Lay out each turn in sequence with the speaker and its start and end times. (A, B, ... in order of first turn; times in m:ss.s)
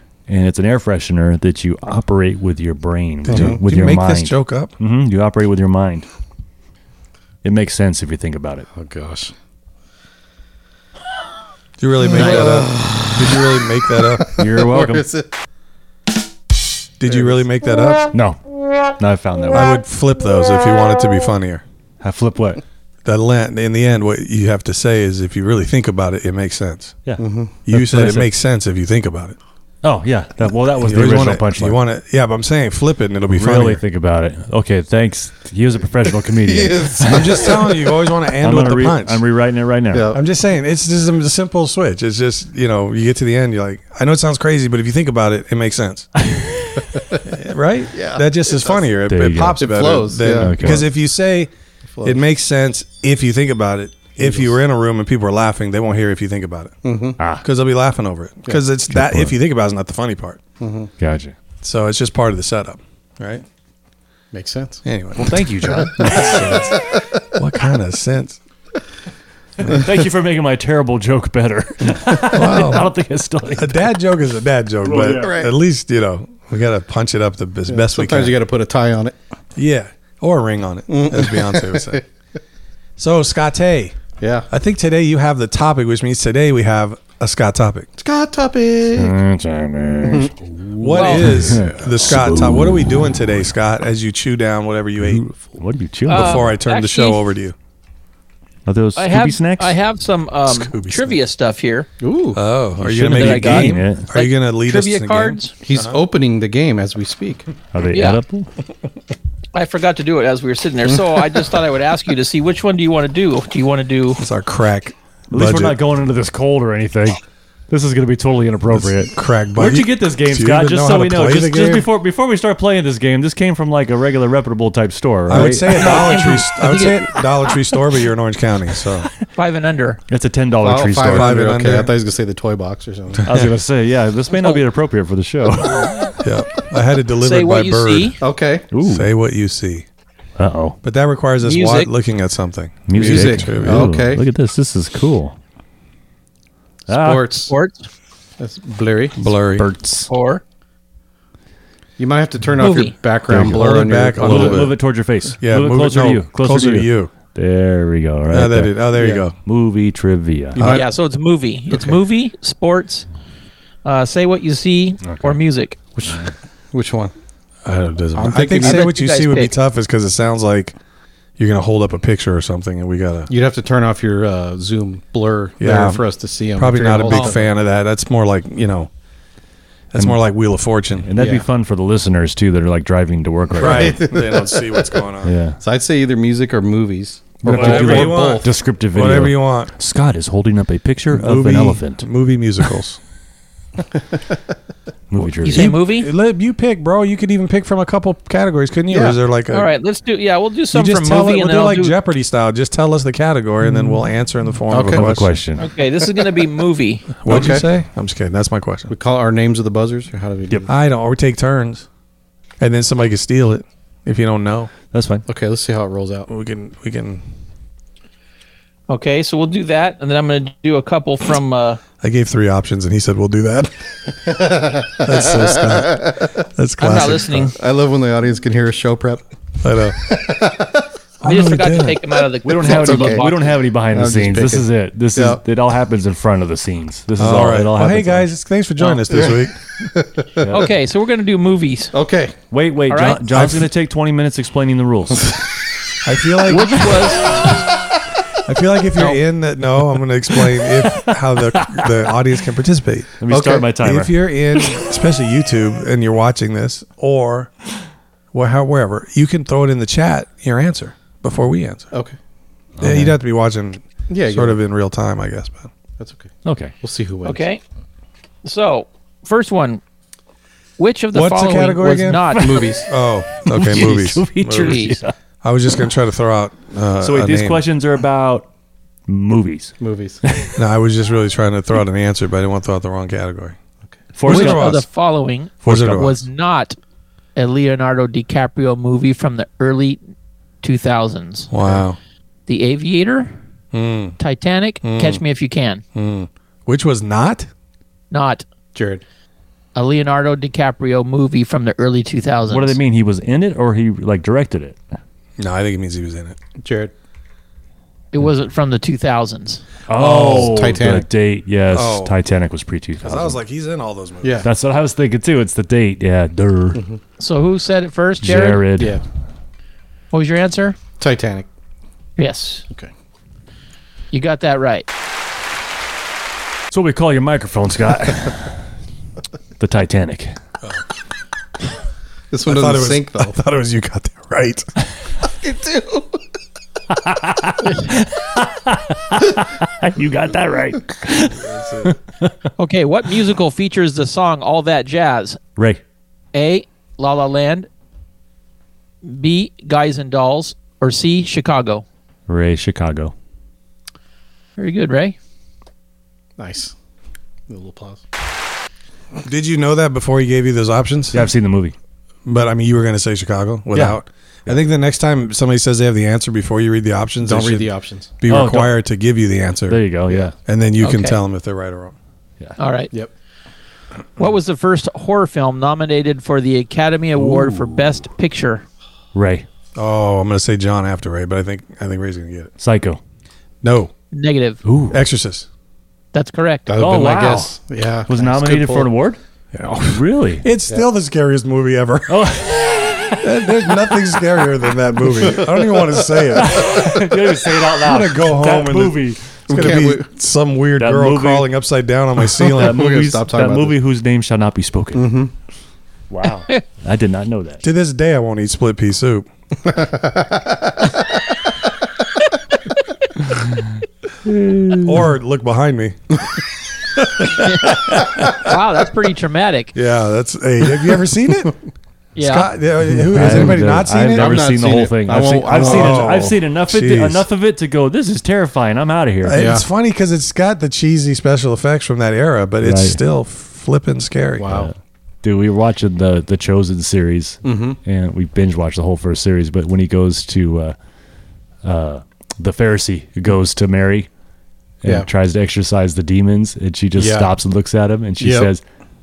0:00.3-0:06.1 A
0:03.2-0:04.7 B
0:03.3-0:03.6 C
0:07.4-0:08.7 A
0:08.7-0:09.3 C
0:11.8-0:14.4 B
0:12.1-0:15.3 C
0:12.1-0:12.5 D
0:14.4-0:15.1 A
0:17.0-0:18.1 B
0:17.1-0:17.4 C
0:18.1-0:18.4 A
0:18.9-0:19.8 A
0:19.5-0:21.6 B
0:22.0-0:22.6 A
0:23.0-0:27.0 B
0:27.0-0:28.3 A
0:27.2-0:27.6 C
0:27.7-0:29.4 B
0:29.8-0:31.8 A
0:30.8-0:33.8 B
0:33.3-0:37.6 A
0:36.4-0:37.5 C
0:37.0-0:39.2 B
0:38.4-0:40.1 A
0:39.9-0:40.2 C
0:40.1-0:46.1 B
0:46.2-0:46.9 A
0:46.9-0:47.2 C
0:47.2-0:51.5 B
0:47.9-0:48.8 C
0:49.1-0:49.7 A
0:49.6-0:50.8 C
0:50.2-0:50.9 A
0:51.9-0:52.2 C
0:52.0-0:56.8 B
0:54.2-0:54.6 C
0:56.8-0:57.2 C
0:57.2-0:57.4 A
0:57.4-1:00.4 B
0:58.9-0:59.4 A
1:00.6-1:00.9 C
1:01.0-1:01.4 A
1:01.6-1:03.4 B
1:04.3-1:04.8 C
1:04.8-1:08.4 B
1:05.2-1:06.7 A
1:06.0-1:07.2 C
1:09.6-1:13.8 A
1:12.3-1:12.9 B
1:13.6-1:18.4 B
1:14.8-1:15.3 A
1:14.9-1:15.5 C
1:17.7-1:19.2 C
1:19.6-1:22.0 B
1:20.9-1:22.0 C
1:23.0-1:24.0 B
1:24.2-1:24.5 C
1:24.5-1:27.9 B
1:28.0-1:29.1 C
1:29.0-1:33.4 A
1:30.0-1:30.3 C
1:30.8-1:35.2 B
1:30.9-1:31.4 D
1:31.4-1:31.7 C
1:35.0-1:36.5 A
1:36.1-1:37.2 D
1:36.1-1:37.6 B
1:38.7-1:39.8 A
1:39.0-1:41.9 D
1:40.5-1:41.2 B
1:42.0-1:42.4 C
1:42.4-1:46.0 B
1:42.8-1:44.1 A
1:43.1-1:45.5 D
1:45.6-1:47.5 C
1:47.7-1:48.5 A
1:47.9-1:48.2 D
1:49.5-1:54.2 D
1:54.2-1:55.8 B
1:55.3-2:06.1 A
1:58.7-2:01.9 B
2:05.3-2:09.1 B
2:05.4-2:07.3 D
2:09.4-2:10.0 D
2:10.1-2:11.4 A
2:10.6-2:13.3 C
2:11.1-2:11.9 B
2:13.2-2:13.5 B
2:13.2-2:16.2 A
2:16.2-2:18.2 B
2:17.2-2:18.2 D
2:18.2-2:18.7 C
2:18.7-2:19.1 A
2:18.8-2:19.9 B
2:20.4-2:20.8 A
2:20.8-2:23.9 B
2:21.4-2:21.9 D
2:22.9-2:25.4 A
2:22.9-2:24.2 C
2:26.9-2:27.3 A
2:26.9-2:27.5 C
2:27.5-2:27.9 D
2:28.4-2:29.2 C
2:29.2-2:29.7 B
2:29.6-2:30.1 A
2:30.1-2:30.4 D
2:32.0-2:34.7 C
2:32.6-2:33.0 D
2:33.3-2:38.8 A
2:33.3-2:34.8 B
2:35.4-2:37.1 B
2:38.3-2:39.4 B
2:39.0-2:39.2 C
2:39.4-2:40.7 A
2:40.6-2:40.9 C
2:40.6-2:43.1 D
2:43.8-2:45.8 D
2:45.0-2:45.4 A
2:46.0-2:47.1 C
2:47.6-2:50.8 B
2:48.1-2:48.9 C
2:48.6-2:49.5 D
2:51.4-2:53.3 B
2:53.3-2:57.5 C
2:55.6-2:56.0 B
2:56.6-2:58.9 B
2:59.9-3:01.1 B
3:01.0-3:04.0 A
3:01.2-3:01.4 C
3:03.5-3:05.0 C
3:03.6-3:05.3 B
3:05.2-3:05.6 A
3:05.6-3:08.5 C
3:07.4-3:12.1 A
3:07.5-3:09.7 B
3:11.1-3:13.0 B
3:15.1-3:15.8 A
3:15.2-3:19.7 B
3:15.4-3:16.1 D
3:18.9-3:19.2 C
3:19.5-3:22.0 D
3:20.7-3:25.3 B
3:24.7-3:25.1 C
3:24.9-3:25.7 A
3:25.6-3:27.1 D
3:27.2-3:28.9 B
3:27.2-3:27.7 C
3:28.9-3:30.7 C
3:30.7-3:31.9 B
3:32.6-3:34.7 B
3:34.9-3:35.2 A
3:35.3-3:36.3 C
3:36.3-3:37.2 B
3:38.9-3:41.8 D
3:42.0-3:43.7 B
3:44.3-3:46.3 C
3:45.0-3:47.5 B
3:46.8-3:47.6 D
3:47.5-3:49.2 C
3:49.6-3:50.1 B
3:50.0-3:50.9 C
3:51.2-3:52.0 B
3:51.2-3:53.6 D
3:52.4-3:58.3 A
3:52.6-3:53.3 C
3:53.9-3:55.4 C
3:57.2-3:59.6 B
3:59.1-4:00.6 C
4:00.4-4:00.7 A
4:00.5-4:01.9 D
4:01.9-4:02.4 C
4:02.5-4:05.4 A
4:02.9-4:03.2 D
4:03.3-4:03.7 B
4:06.0-4:07.2 B
4:06.4-4:07.5 D
4:08.4-4:13.2 B
4:10.7-4:12.0 A
4:13.2-4:14.9 A
4:13.3-4:13.7 C
4:13.8-4:17.5 B
4:18.3-4:21.9 B
4:22.8-4:23.1 A
4:22.8-4:25.7 B
4:24.1-4:24.6 C
4:26.0-4:26.3 C
4:26.4-4:26.7 A
4:26.8-4:27.4 C
4:27.2-4:27.6 D
4:28.4-4:29.8 D
4:30.8-4:32.6 D
4:31.1-4:34.9 B
4:32.4-4:32.7 A
4:32.4-4:32.9 C
4:33.4-4:35.1 A
4:34.6-4:35.0 D
4:35.4-4:37.6 B
4:37.0-4:38.5 A
4:39.1-4:40.6 A
4:39.8-4:40.2 C
4:40.6-4:43.6 B
4:44.1-4:44.8 A
4:44.2-4:44.8 B
4:44.2-4:46.8 D
4:45.6-4:46.2 B
4:45.7-4:46.1 A
4:47.4-4:50.0 D
4:50.6-4:51.5 D
4:51.5-4:52.0 B
4:52.5-4:53.4 D
4:53.7-4:54.2 B
4:54.2-4:55.8 D
4:54.8-4:55.2 B
4:56.0-4:57.5 B
4:58.1-4:58.4 D
4:58.7-4:59.0 C
4:59.8-5:02.8 D
5:02.5-5:04.8 A
5:05.4-5:06.4 B
5:06.6-5:06.9 C
5:08.1-5:09.6 D
5:09.9-5:13.4 A
5:09.9-5:10.6 B
5:10.1-5:11.1 C
5:11.7-5:12.1 B
5:13.0-5:14.5 B
5:14.4-5:16.8 A
5:16.8-5:17.0 C
5:17.2-5:18.6 D
5:18.2-5:19.0 A
5:18.8-5:19.0 C
5:20.1-5:20.8 D
5:21.0-5:21.5 C
5:22.2-5:22.7 D
5:24.1-5:24.9 D
5:26.7-5:28.6 A
5:29.6-5:30.4 A
5:32.3-5:33.4 C
5:32.5-5:34.7 B
5:35.4-5:36.2 C
5:36.9-5:42.5 A
5:41.4-5:42.0 B
5:42.6-5:45.4 D
5:45.6-5:45.8 A
5:46.3-5:47.7 D
5:49.0-5:51.8 D
5:52.3-5:53.1 A
5:54.6-5:55.2 D
5:56.4-5:56.8 C
5:57.5-5:58.0 C
5:59.2-6:01.3 B
6:01.1-6:01.8 A
6:02.2-6:09.8 B
6:07.2-6:08.1 C
6:08.3-6:08.8 A
6:09.7-6:10.4 A
6:10.4-6:12.0 B
6:10.8-6:11.2 D
6:12.6-6:12.9 D
6:14.2-6:18.6 D
6:17.2-6:18.0 A
6:19.1-6:19.5 A
6:19.8-6:22.5 B
6:22.6-6:23.0 A
6:23.6-6:23.9 B
6:24.1-6:24.6 D
6:24.6-6:25.0 A
6:24.9-6:25.5 B
6:26.1-6:26.7 D
6:26.7-6:28.9 C
6:26.8-6:27.6 A
6:28.1-6:29.2 A
6:29.5-6:32.3 B
6:29.9-6:30.5 A
6:32.1-6:33.3 A
6:33.2-6:37.2 B
6:36.4-6:39.4 A
6:37.8-6:42.8 B
6:39.5-6:40.1 C
6:40.8-6:41.5 A
6:42.4-6:45.2 A
6:42.5-6:43.8 C
6:45.0-6:45.3 C
6:46.1-6:47.6 A
6:47.6-6:49.3 B
6:49.7-6:50.7 C
6:54.2-6:55.1 A
6:54.8-6:56.3 B
6:57.0-6:58.5 B
6:57.4-6:59.7 D
6:59.7-7:01.5 B
7:02.2-7:02.5 D
7:02.2-7:04.4 B
7:03.0-7:03.6 C
7:03.1-7:09.4 A
7:04.1-7:06.2 C
7:05.6-7:07.2 B
7:09.2-7:14.5 B
7:09.3-7:09.6 C
7:12.6-7:13.0 A
7:14.4-7:14.7 C
7:14.5-7:20.8 A
7:17.4-7:17.8 C
7:21.6-7:24.1 A
7:24.8-7:28.6 A
7:27.0-7:27.3 C
7:28.2-7:28.5 C